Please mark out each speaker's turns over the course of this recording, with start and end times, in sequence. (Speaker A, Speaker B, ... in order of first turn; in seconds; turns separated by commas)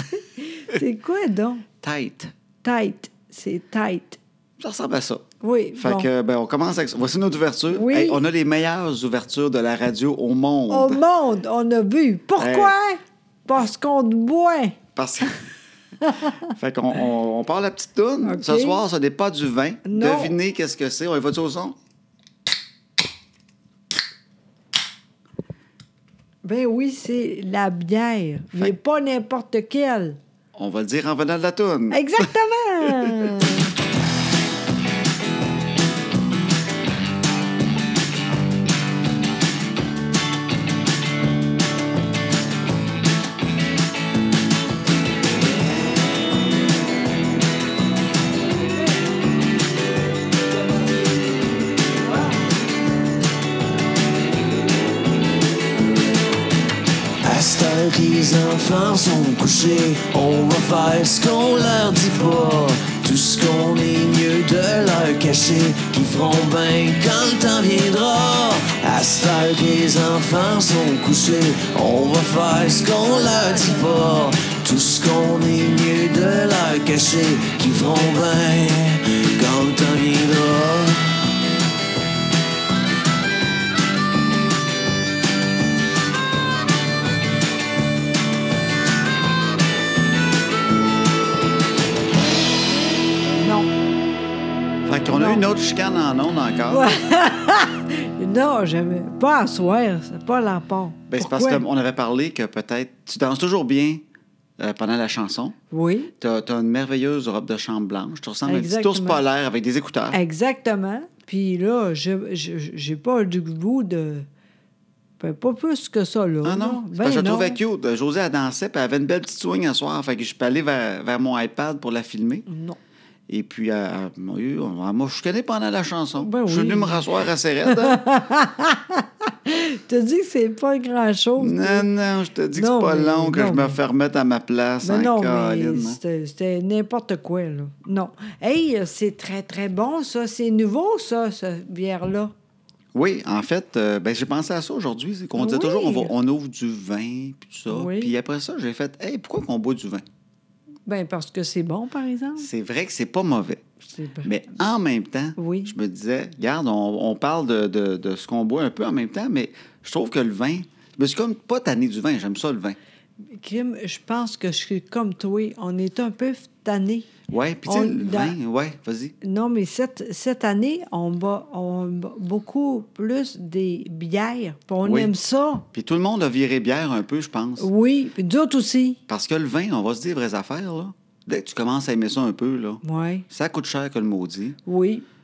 Speaker A: 0.1-1.7, Speaker B: 1.8-2.3, Speaker A: 2.6-4.2, Speaker B: 4.6-5.3, Speaker A: 5.4-6.1, Speaker B: 5.8-11.0, Speaker A: 7.7-8.2, Speaker A: 10.7-14.8, Speaker B: 12.4-12.7, Speaker B: 15.0-15.4, Speaker B: 16.4-21.8, Speaker A: 18.2-18.8, Speaker A: 19.9-20.4, Speaker A: 26.4-30.2, Speaker B: 30.6-32.3, Speaker A: 31.9-33.7, Speaker B: 32.9-33.4, Speaker C: 57.2-81.2, Speaker A: 93.4-93.7, Speaker B: 94.8-96.9, Speaker A: 95.1-95.5, Speaker A: 96.7-101.6, Speaker B: 101.1-104.0, Speaker B: 104.6-105.6, Speaker A: 105.7-106.1, Speaker B: 106.2-110.2, Speaker A: 108.5-109.2, Speaker A: 110.1-114.3, Speaker A: 115.2-117.6, Speaker B: 116.4-122.5, Speaker A: 122.5-122.8, Speaker B: 123.3-128.0, Speaker A: 126.2-131.9, Speaker B: 131.4-136.0, Speaker A: 132.5-133.8, Speaker A: 134.8-142.3, Speaker B: 142.9-150.0, Speaker A: 145.4-146.1, Speaker A: 147.7-148.1, Speaker A: 150.9-152.5, Speaker B: 152.4-153.6, Speaker A: 153.8-154.4, Speaker B: 154.2-162.8, Speaker A: 155.4-155.7, Speaker A: 163.3-167.1, Speaker B: 167.3-169.1, Speaker A: 167.7-168.4, Speaker A: 169.2-175.7, Speaker B: 174.8-175.1, Speaker B: 175.7-177.7, Speaker A: 177.6-179.0, Speaker B: 179.1-184.6, Speaker A: 182.8-183.3, Speaker A: 184.7-185.1